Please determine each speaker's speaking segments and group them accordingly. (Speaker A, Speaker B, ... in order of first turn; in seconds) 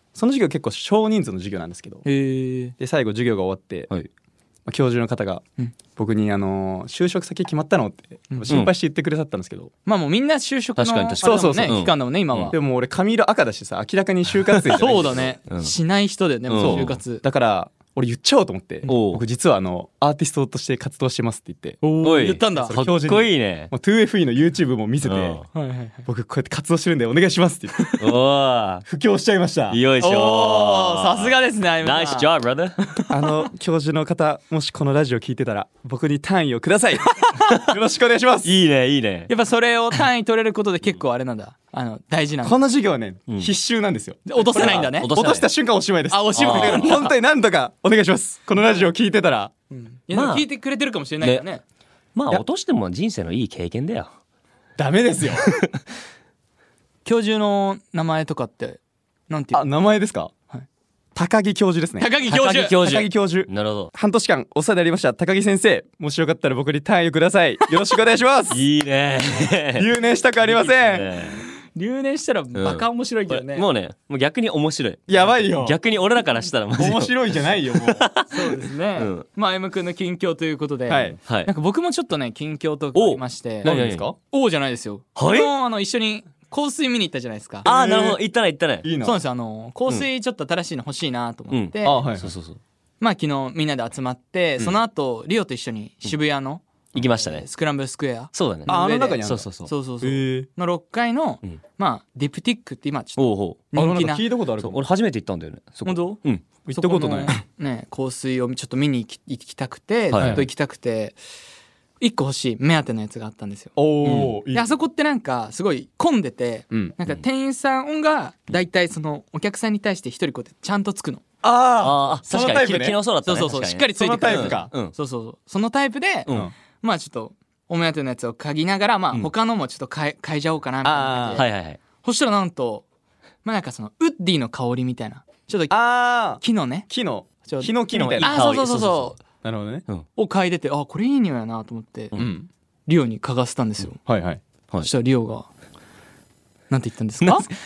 Speaker A: 0.1-2.0, 2.8-3.9, 4.7-5.4, 6.0-9.7, 11.2-11.8, 12.5-15.4, 16.6-21.8, 22.5-25.5, 26.1-28.0, 28.9-29.8, 33.1-38.5, 42.4-49.5, 54.8-55.5, 59.5-60.3, 61.1-68.7, 69.8-71.1, 75.1-75.8, 76.8-78.0, 80.9-81.2, 83.6-84.2, 87.7-88.2, 88.8-89.2, 91.8-92.3, 98.7-99.5, 100.0-100.5, 103.8-104.8, 106.7-107.3, 110.2-110.5, 113.8-114.8, 116.7-117.0, 121.4-123.0, 124.0-124.7, 130.8-131.4, 135.7-138.6, 139.4-139.8, 142.2-142.5, 144.1-144.4
Speaker B: 2.0-2.8, 8.3-8.6, 9.8-12.6, 14.7-17.2, 21.8-22.8, 25.5-26.1, 30.0-32.3, 37.1-37.5, 39.3-42.6, 44.3-45.1, 46.1-47.1, 49.7-51.6, 57.0-59.7, 62.0-62.8, 71.4-73.7, 78.3-83.7, 84.3-87.7, 89.0-92.0, 93.0-104.2, 105.8-106.2, 106.8-111.2, 112.0-121.2, 123.2-132.8, 133.4-136.9, 137.4-139.2, 140.2-142.2, 142.9-144.0, 144.8-145.5, 146.7-147.5
Speaker C: 10.8-12.5, 15.5-15.7, 16.5-17.0, 18.9-19.2, 22.0-23.7, 25.0-25.4, 28.0-28.9, 29.7-32.8, 38.4-39.3, 44.4-45.5, 46.4-47.1, 50.1-50.5, 52.1-54.1, 62.3-63.9, 68.5-69.9, 70.5-71.4, 72.5-77.2, 77.7-79.3, 83.0-84.1, 85.2-85.5, 87.7-88.9, 91.5-92.6, 96.9-97.5, 98.3-99.7, 103.2-103.6, 104.6-106.4, 110.1-110.5, 114.0-114.3, 121.8-124.9, 131.3-131.8, 137.9-139.2